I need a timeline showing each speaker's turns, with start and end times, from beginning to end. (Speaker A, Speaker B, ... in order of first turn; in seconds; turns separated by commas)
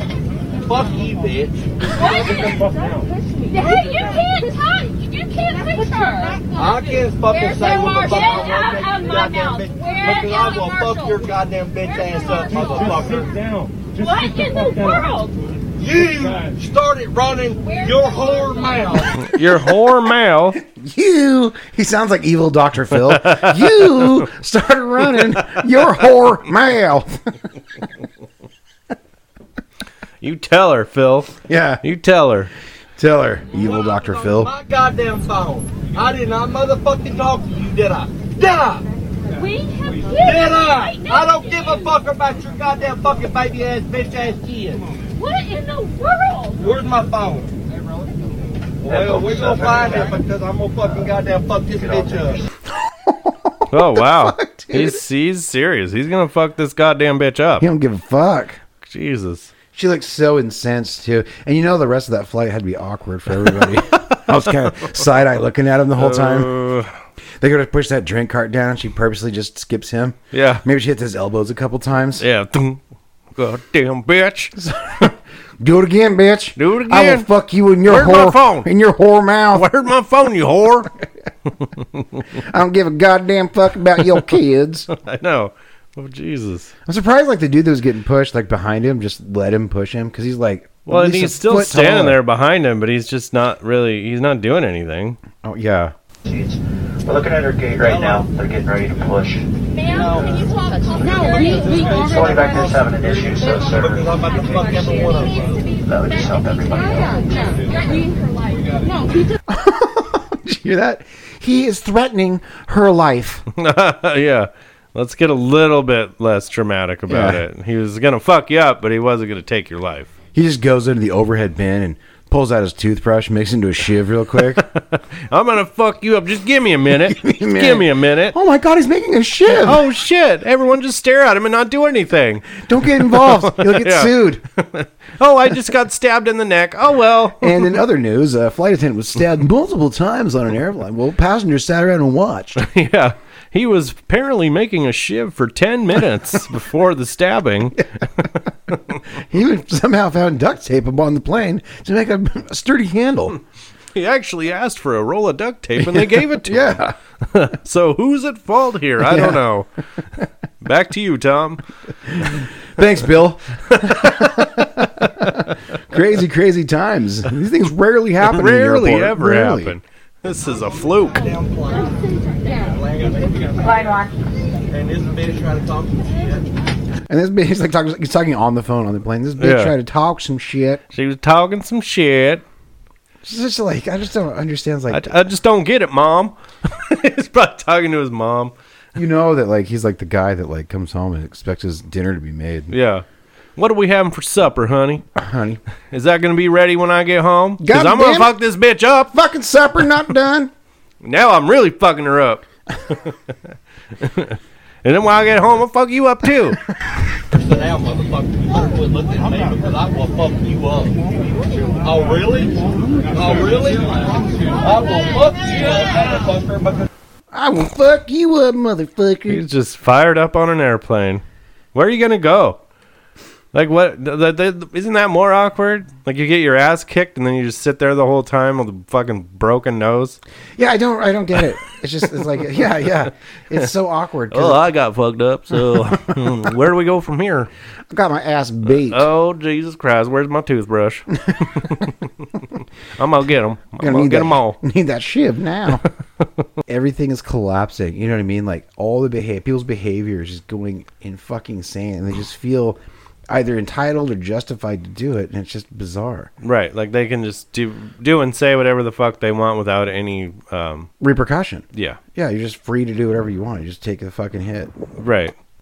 Speaker A: 0.6-1.8, Speaker B: 1.9-11.2, Speaker A: 6.6-13.4, Speaker B: 12.2-13.0, Speaker B: 13.9-15.4, Speaker A: 15.8-19.2, Speaker B: 17.7-18.8, Speaker C: 19.2-20.6, Speaker D: 20.6-27.3, Speaker C: 22.9-24.3, Speaker C: 25.0-26.1, Speaker C: 30.2-32.5, Speaker D: 31.5-31.8, Speaker D: 33.0-34.5, Speaker A: 33.5-38.9, Speaker B: 39.3-42.0, Speaker A: 40.2-44.9, Speaker B: 45.2-46.6, Speaker A: 46.6-47.5, Speaker E: 48.8-50.1, Speaker A: 48.8-52.4, Speaker E: 51.7-52.5, Speaker D: 52.8-55.0, Speaker C: 53.7-57.7, Speaker D: 57.6-58.6, Speaker C: 58.8-59.5, Speaker D: 59.7-66.6, Speaker C: 63.4-65.0, Speaker C: 66.0-67.0, Speaker D: 67.4-72.2, Speaker C: 70.3-70.6, Speaker C: 72.2-72.8, Speaker C: 73.3-74.5, Speaker D: 74.6-79.7, Speaker C: 76.6-77.3, Speaker C: 77.8-78.7, Speaker C: 79.5-80.9, Speaker C: 81.8-82.2, Speaker D: 82.3-84.9, Speaker C: 84.9-86.7, Speaker D: 86.9-92.2, Speaker C: 90.9-95.2, Speaker D: 95.4-95.9, Speaker E: 96.2-99.5, Speaker A: 97.8-98.3, Speaker B: 99.8-101.9, Speaker A: 99.8-100.5, Speaker A: 101.1-105.7, Speaker E: 102.0-104.8, Speaker E: 105.7-107.3, Speaker B: 107.1-108.6, Speaker D: 109.5-113.5, Speaker C: 113.5-120.1, Speaker D: 117.1-117.4, Speaker D: 120.3-124.7, Speaker C: 124.4-128.4, Speaker D: 127.0-129.8, Speaker C: 129.5-137.8, Speaker D: 132.6-134.4, Speaker D: 137.4-142.7, Speaker C: 142.6-148.4, Speaker D: 149.1-153.4, Speaker C: 153.9-159.7, Speaker D: 155.8-156.9, Speaker D: 159.1-159.4, Speaker C: 160.6-161.6, Speaker D: 162.1-169.8, Speaker C: 163.7-165.6, Speaker C: 168.2-171.3, Speaker A: 171.2-174.1, Speaker A: 174.7-176.5, Speaker D: 177.1-180.8, Speaker C: 179.4-179.8, Speaker C: 180.9-182.4, Speaker D: 183.2-185.2, Speaker C: 184.9-188.5, Speaker D: 189.0-192.7, Speaker C: 192.7-193.1, Speaker C: 193.6-195.1, Speaker D: 195.2-195.6, Speaker C: 195.8-199.1, Speaker D: 197.6-198.4, Speaker D: 199.1-200.5, Speaker C: 201.0-203.2, Speaker C: 204.0-206.6, Speaker A: 207.3-211.0, Speaker A: 211.8-216.9, Speaker D: 217.3-219.4, Speaker C: 219.3-221.2, Speaker C: 221.7-222.6, Speaker C: 223.5-230.2, Speaker D: 230.6-234.7, Speaker C: 232.3-233.7, Speaker C: 234.3-237.5, Speaker D: 235.7-236.4, Speaker D: 237.9-239.1, Speaker C: 238.8-244.6, Speaker D: 241.3-241.9, Speaker D: 243.8-245.8, Speaker D: 246.7-256.3, Speaker C: 256.4-260.9, Speaker D: 261.0-264.7, Speaker C: 261.7-262.0, Speaker C: 265.0-265.4